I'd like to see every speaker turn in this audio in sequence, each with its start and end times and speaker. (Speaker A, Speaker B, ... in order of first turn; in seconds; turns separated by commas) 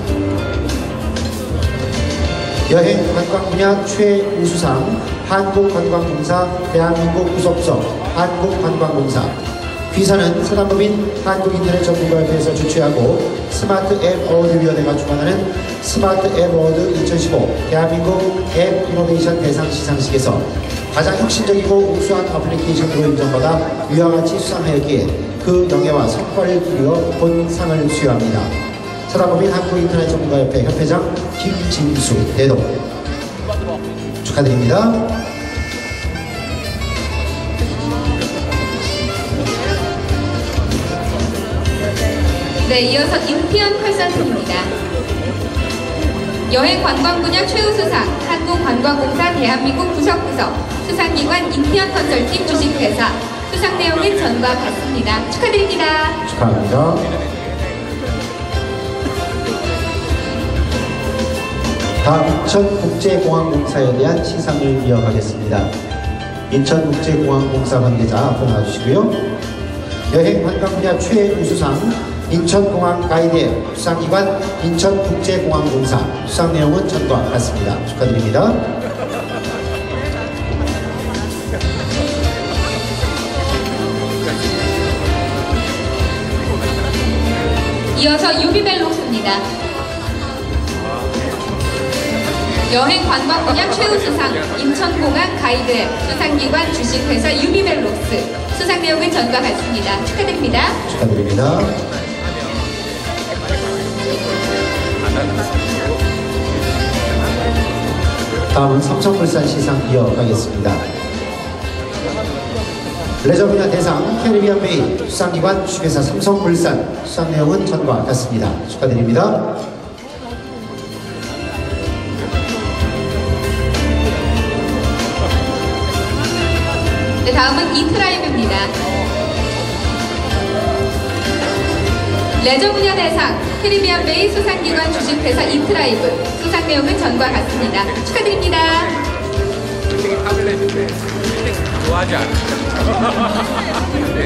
Speaker A: 2.7-9.3, Speaker A: 9.9-28.5, Speaker A: 29.1-32.7, Speaker A: 34.2-35.0, Speaker B: 42.6-44.7, Speaker B: 46.5-56.2, Speaker A: 56.2-57.1, Speaker A: 62.0-65.7, Speaker A: 66.5-69.2, Speaker A: 70.1-78.6, Speaker B: 88.0-89.4, Speaker B: 92.7-100.8, Speaker A: 100.9-101.7, Speaker A: 108.5-110.8, Speaker A: 113.2-119.5, Speaker B: 127.2-128.7, Speaker B: 132.4-138.9